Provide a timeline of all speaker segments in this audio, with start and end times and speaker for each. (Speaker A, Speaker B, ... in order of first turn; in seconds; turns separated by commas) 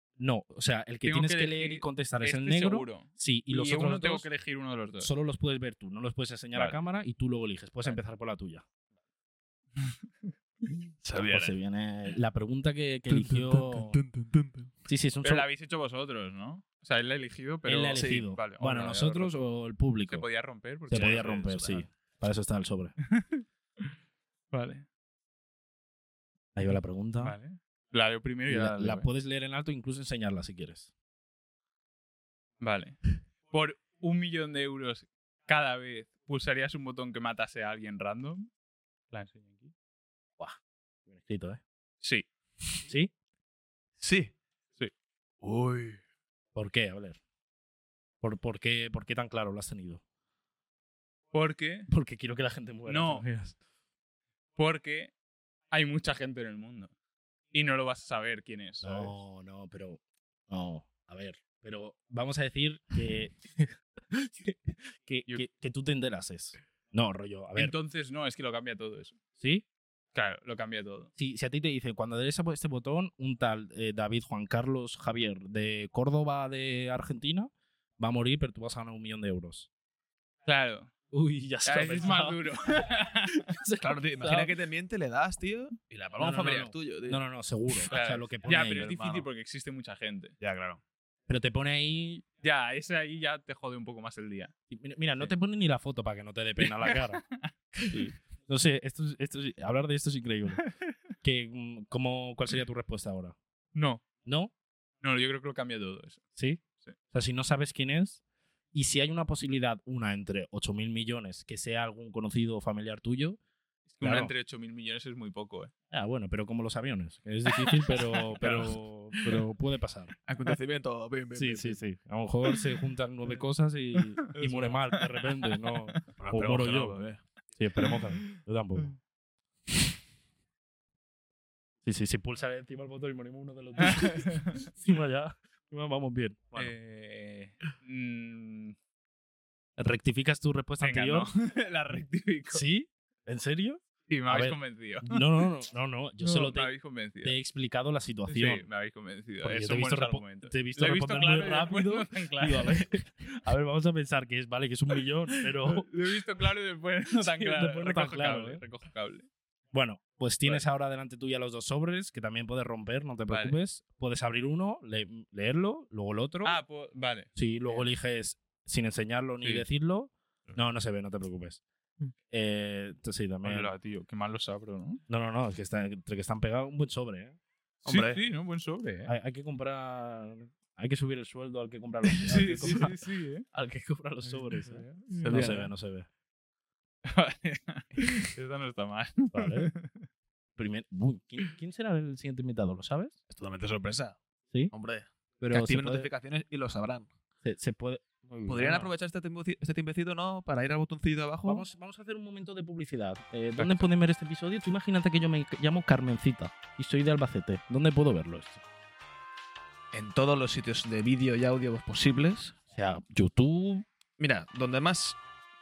Speaker A: 0.2-4.3, Speaker B: 1.0-5.1, Speaker A: 5.0-8.6, Speaker B: 6.5-6.8, Speaker B: 9.8-10.7, Speaker C: 11.0-11.5, Speaker A: 11.1-14.0, Speaker C: 13.1-14.7, Speaker A: 14.8-15.4, Speaker B: 15.2-19.4, Speaker A: 17.6-20.2, Speaker C: 17.9-18.2, Speaker B: 20.1-21.8, Speaker A: 20.9-22.9, Speaker B: 23.1-23.9, Speaker B: 24.5-24.9, Speaker A: 26.5-27.4, Speaker B: 26.6-29.1, Speaker A: 28.5-30.9, Speaker B: 32.6-38.5, Speaker B: 39.1-39.7, Speaker A: 40.4-41.6, Speaker B: 42.0-42.3, Speaker C: 44.0-44.3, Speaker C: 45.4-46.0, Speaker A: 46.5-47.2, Speaker A: 48.2-50.0, Speaker B: 51.3-51.9, Speaker A: 51.9-53.5, Speaker B: 52.9-53.2, Speaker B: 54.6-55.1, Speaker B: 55.7-56.9, Speaker B: 57.5-59.1, Speaker A: 58.8-67.7, Speaker B: 67.5-69.2, Speaker A: 69.4-69.6, Speaker B: 70.1-71.1, Speaker A: 71.2-79.7, Speaker B: 80.5-80.9, Speaker A: 81.1-82.4, Speaker B: 81.7-83.5, Speaker A: 83.5-84.5, Speaker C: 83.8-87.9, Speaker A: 86.2-89.0, Speaker B: 87.9-90.3, Speaker C: 88.5-89.3, Speaker C: 90.4-90.8, Speaker A: 91.3-92.2, Speaker B: 92.4-94.5, Speaker A: 94.7-97.2, Speaker B: 96.6-97.5, Speaker A: 97.9-100.7, Speaker B: 100.6-100.9, Speaker A: 101.2-103.3, Speaker B: 103.7-104.0, Speaker A: 104.2-104.5, Speaker B: 105.0-106.2, Speaker A: 106.3-108.2, Speaker A: 108.7-113.4, Speaker B: 113.9-115.7, Speaker A: 114.0-114.3, Speaker A: 115.9-120.1, Speaker B: 117.5-119.4, Speaker C: 120.3-121.8, Speaker A: 121.3-127.0, Speaker B: 124.2-126.0, Speaker C: 126.1-127.2, Speaker A: 127.5-128.9, Speaker B: 127.8-128.0, Speaker A: 131.8-136.7, Speaker B: 133.8-134.6, Speaker B: 136.5-138.8, Speaker A: 139.8-141.3, Speaker B: 140.8-142.6, Speaker A: 142.5-146.7, Speaker B: 144.1-145.2, Speaker B: 146.2-147.3, Speaker A: 147.2-148.7, Speaker B: 148.3-152.8, Speaker A: 149.4-155.9, Speaker B: 155.6-159.3, Speaker A: 157.2-158.6, Speaker A: 159.7-166.6, Speaker B: 163.3-163.6, Speaker B: 166.4-167.8, Speaker A: 167.3-171.6, Speaker A: 172.3-173.7, Speaker B: 173.4-175.0, Speaker A: 175.1-177.4, Speaker C: 177.8-178.2, Speaker B: 177.8-179.1, Speaker A: 179.1-183.0, Speaker B: 182.3-183.4, Speaker A: 183.5-186.1, Speaker B: 184.2-185.6, Speaker C: 185.2-185.7, Speaker B: 187.0-190.1, Speaker C: 188.0-188.3, Speaker A: 189.3-189.7, Speaker A: 190.6-193.1, Speaker C: 193.3-194.2, Speaker C: 194.7-197.1, Speaker A: 195.4-196.1, Speaker A: 197.4-198.9, Speaker C: 198.4-201.6, Speaker A: 201.4-208.6, Speaker B: 203.6-203.9, Speaker C: 209.9-212.5, Speaker A: 212.7-213.8, Speaker C: 214.2-215.2